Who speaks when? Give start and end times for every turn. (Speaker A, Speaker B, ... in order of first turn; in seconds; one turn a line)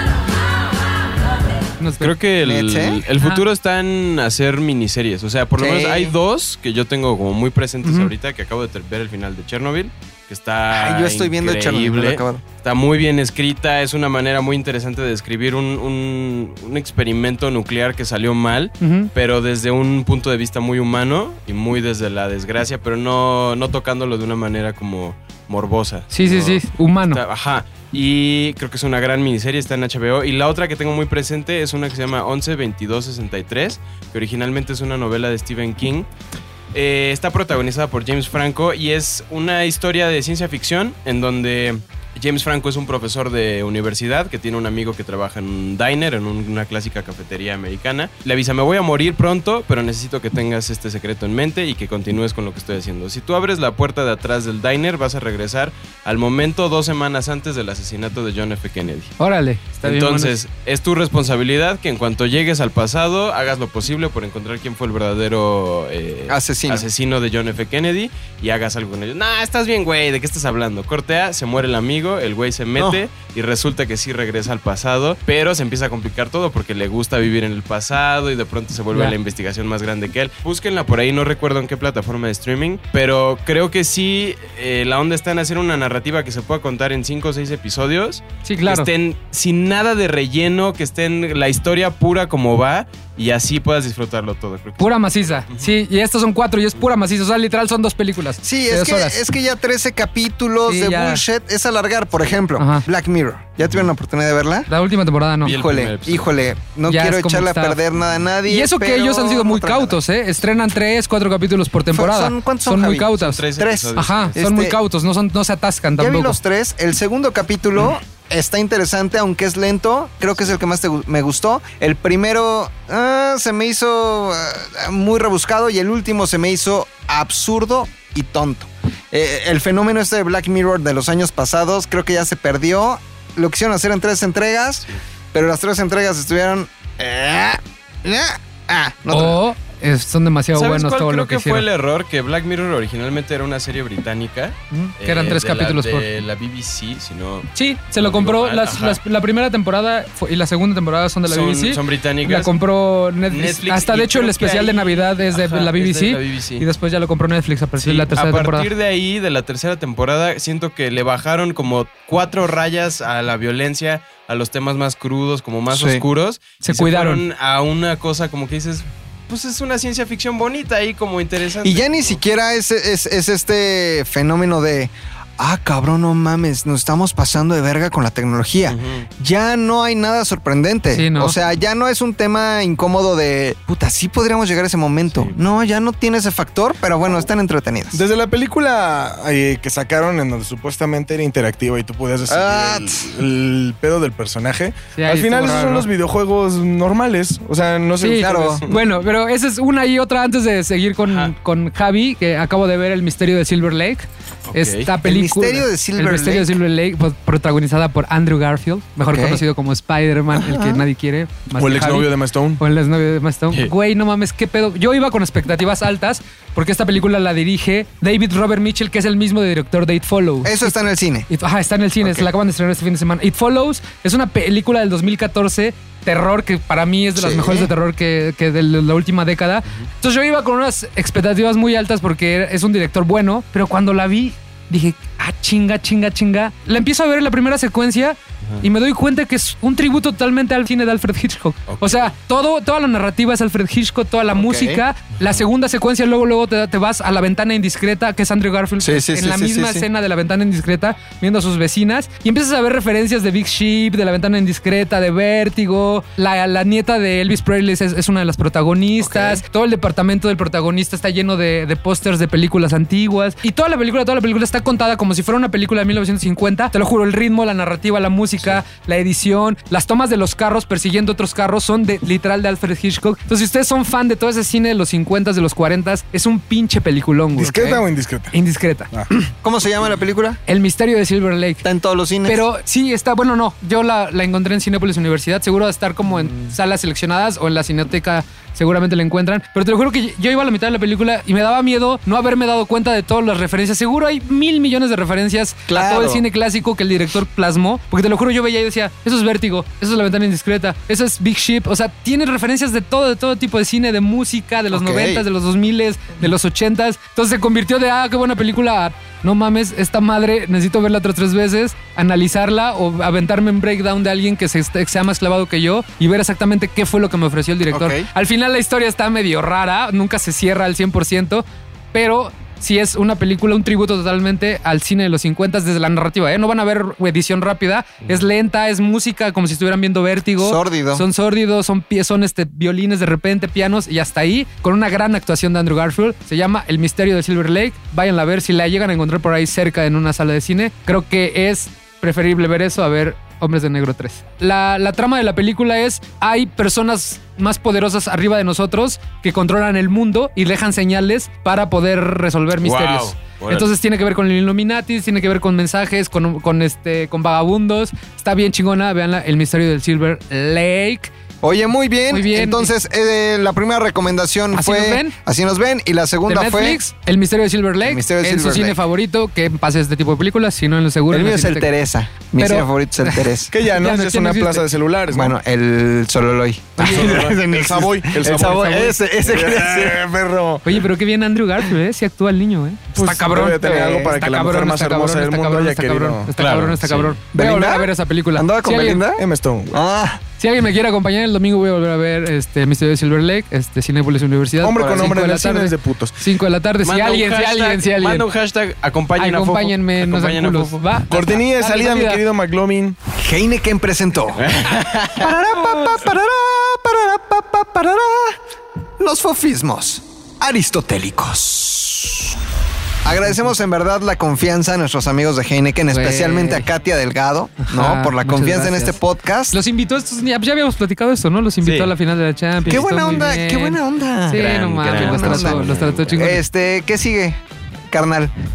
Speaker A: 1.8-2.1
Speaker B: 2.0-36.1
Speaker C: 2.4-3.0
Speaker C: 5.6-6.2
Speaker A: 7.8-8.1
Speaker C: 10.7-12.4
Speaker A: 18.8-19.1
Speaker A: 26.1-27.2
Speaker B: 36.7-59.1
Speaker A: 59.2-60.3
Speaker B: 59.8-94.9
Speaker C: 66.3-66.9
Speaker C: 72.8-73.0
Speaker A: 88.5-88.9
Speaker A: 94.8-99.2
Speaker C: 98.4-104.7
Speaker A: 100.7-101.2
Speaker A: 102.6-102.8
Speaker A: 104.7-105.6
Speaker B: 105.4-106.3
Speaker C: 105.4-110.0
Speaker A: 106.9-107.8
Speaker A: 108.5-113.4
Speaker C: 111.9-114.8
Speaker B: 113.2-114.4
Speaker A: 114.0-116.4
Speaker C: 116.0-139.4
Speaker A: 139.1-141.7
Speaker B: 140.5-149.0
Speaker A: 144.7-146.1
Speaker A: 147.5-158.7
Speaker B: 151.3-152.6
Speaker B: 153.3-156.7
Speaker B: 157.8-172.2
Speaker C: 165.7-166.0
Speaker A: 166.6-167.2
Speaker C: 171.6-188.0
Speaker B: 178.7-179.1
Speaker A: 180.9-181.4
Speaker D: 187.9-198.8
Speaker C: 192.3-193.2
Speaker A: 195.0-195.9
Speaker A: 198.0-220.8
Speaker C: 198.2-198.6
Speaker B: 201.1-201.3
Speaker B: 204.5-204.9
Speaker C: 205.0-206.6
Speaker C: 209.0-209.4
Speaker C: 210.3-210.8
Speaker D: 211.6-212.6
Speaker C: 220.4-221.3
Speaker A: 221.3-278.9
Speaker C: 222.0-222.3
Speaker C: 227.2-227.7
Speaker B: 241.7-242.1
Speaker C: 244.3-244.8
Speaker C: 248.8-249.9
Speaker C: 259.0-259.4
Speaker D: 277.4-278.3
Speaker C: 279.4-280.4
Speaker A: 280.5-281.6
Speaker C: 281.6-282.4
Speaker A: 282.2-361.1
Speaker C: 286.1-286.5
Speaker C: 295.7-296.3
Speaker C: 304.7-305.3
Speaker C: 317.7-318.1
Speaker C: 330.4-331.1
Speaker B: 352.6-353.7
Speaker C: 361.4-366.8
Speaker A: 362.1-362.7
Speaker A: 364.6-365.1
Speaker A: 366.3-371.7
Speaker C: 367.8-368.8
Speaker C: 371.1-373.5
Speaker A: 372.4-374.7
Speaker D: 373.5-375.4
Speaker C: 375.1-380.0
Speaker A: 376.8-377.3
Speaker D: 376.8-380.8
Speaker A: 378.3-378.9
Speaker A: 380.6-389.1
Speaker D: 382.9-386.3
Speaker C: 383.6-384.1
Speaker B: 386.4-387.2
Speaker C: 387.3-390.2
Speaker D: 389.1-389.8
Speaker A: 390.4-398.3
Speaker D: 394.6-396.2
Speaker B: 396.8-400.8
Speaker A: 399.2-402.2
Speaker D: 401.1-403.0
Speaker C: 403.1-404.5
Speaker B: 404.4-405.3
Speaker C: 405.1-408.4
Speaker C: 409.0-412.4
Speaker C: 413.0-419.6
Speaker A: 415.9-416.7
Speaker A: 417.6-419.0
Speaker A: 419.5-426.4
Speaker B: 421.6-421.9
Speaker C: 422.6-427.4
Speaker B: 424.4-426.3
Speaker C: 427.9-428.3